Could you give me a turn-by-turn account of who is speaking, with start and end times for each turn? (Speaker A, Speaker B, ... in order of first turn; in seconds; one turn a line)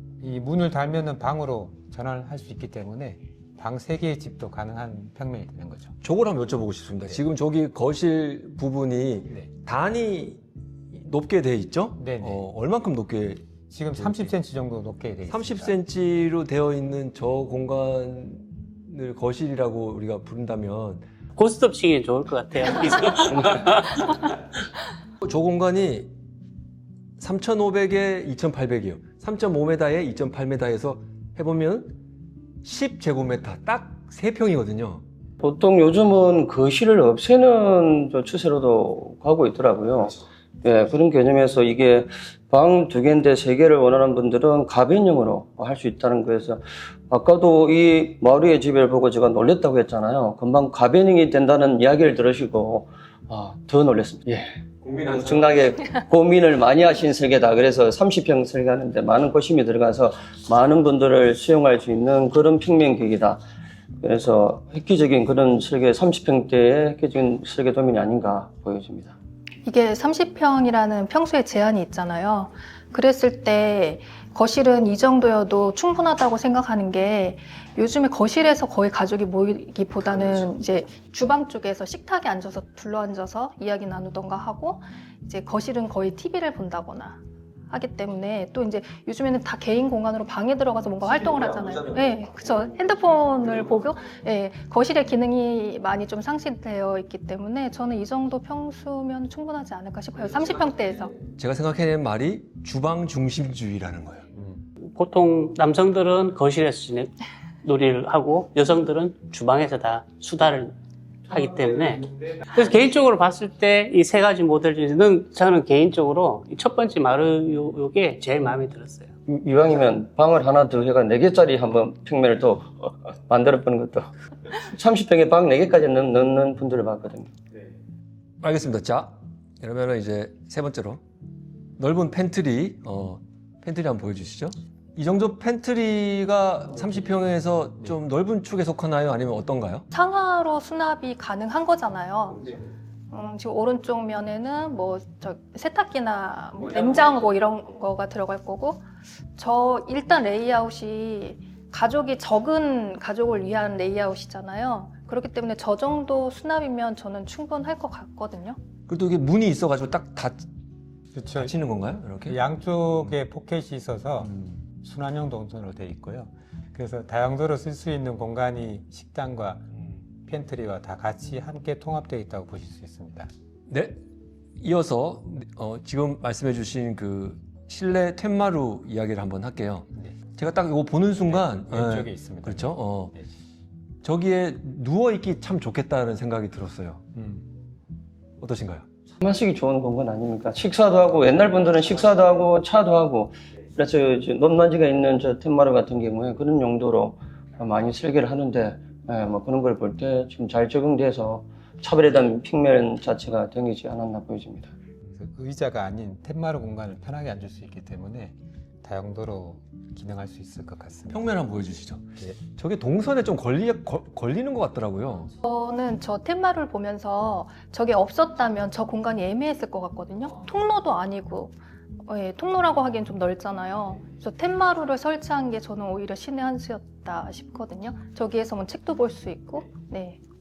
Speaker A: 0.2-5.9
Speaker B: 6.0-10.4
Speaker B: 10.9-14.3
Speaker A: 12.0-12.4
Speaker A: 13.7-15.8
Speaker B: 15.3-21.1
Speaker C: 21.4-24.2
Speaker B: 25.2-26.1
Speaker B: 27.2-32.0
Speaker B: 32.6-35.0
Speaker D: 35.4-54.6
Speaker B: 54.8-55.8
Speaker D: 55.1-63.4
Speaker D: 64.0-69.1
Speaker E: 69.6-101.2
Speaker B: 101.2-104.3
Speaker C: 104.9-107.1
Speaker C: 107.6-110.7
Speaker C: 111.3-119.1
Speaker D: 119.3-124.1
Speaker D: 124.6-127.3
Speaker B: 128.4-131.0
Speaker B: 131.8-139.8
Speaker E: 139.9-142.6
Speaker E: 143.1-148.8
Speaker E: 149.4-158.6
Speaker B: 158.9-160.5
Speaker A: 161.1-161.6
Speaker B: 161.4-162.4
Speaker A: 162.2-173.3
Speaker B: 173.7-174.0
Speaker B: 174.6-183.1
Speaker A: 181.3-183.2
Speaker B: 184.0-187.0
Speaker A: 187.1-187.4
Speaker B: 188.4-188.8
Speaker D: 189.2-204.7
Speaker A: 205.1-211.2
Speaker B: 211.1-215.3
Speaker E: 215.4-230.2